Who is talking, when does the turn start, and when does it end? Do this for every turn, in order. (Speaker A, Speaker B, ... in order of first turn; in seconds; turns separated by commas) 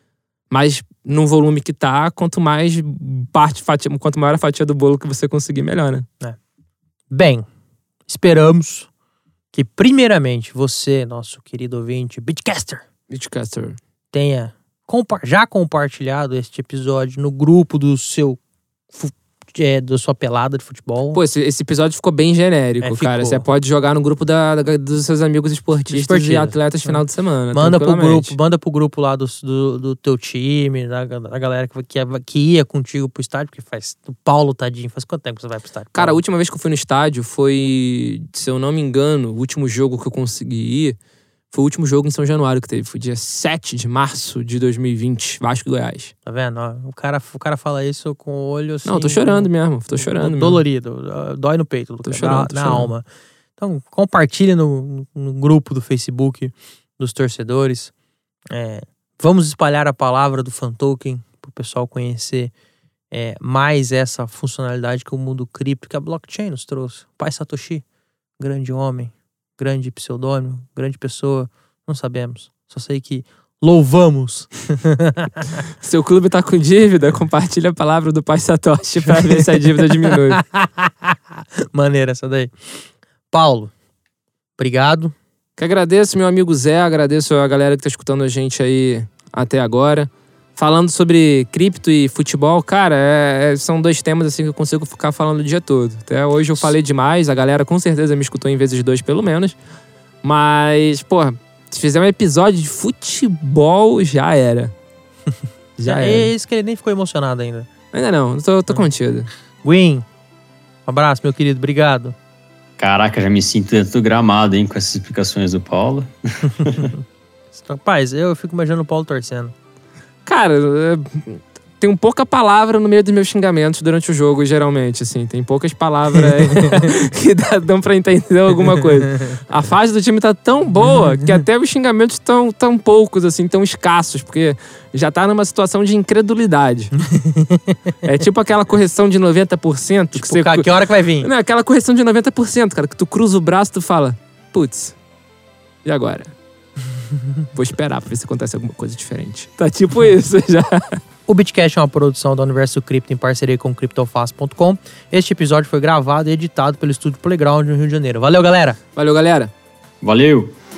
Speaker A: 0.5-6.0, Speaker B: 7.1-7.4, Speaker B: 8.1-8.9, Speaker B: 9.5-12.8, Speaker A: 13.1-13.8, Speaker B: 14.1-18.4, Speaker B: 18.9-21.2, Speaker A: 21.1-28.4, Speaker B: 22.8-23.4, Speaker B: 25.9-27.0, Speaker B: 27.5-36.2, Speaker A: 35.9-41.0, Speaker A: 41.5-46.1, Speaker B: 46.2-53.0, Speaker A: 48.8-50.6, Speaker A: 52.0-52.9, Speaker B: 53.6-57.9, Speaker B: 58.5-62.5, Speaker B: 63.1-67.8, Speaker B: 68.4-75.6, Speaker A: 75.8-80.4, Speaker B: 79.0-82.5, Speaker B: 83.3-83.7, Speaker B: 84.6-85.1, Speaker A: 85.6-99.6, Speaker A: 100.2-104.7, Speaker A: 105.8-106.3, Speaker B: 105.8-107.7, Speaker A: 107.9-109.3, Speaker B: 109.6-110.0, Speaker B: 110.8-112.1, Speaker C: 112.8-117.0, Speaker B: 116.8-119.5, Speaker A: 120.2-137.0, Speaker B: 126.1-126.9, Speaker B: 128.8-129.4, Speaker B: 130.8-131.2, Speaker B: 137.0-137.8, Speaker A: 138.0-140.7, Speaker B: 140.1-141.3, Speaker A: 141.2-145.0, Speaker A: 145.8-146.3, Speaker A: 147.5-151.0, Speaker B: 151.3-158.8, Speaker A: 158.9-159.5, Speaker C: 160.0-160.5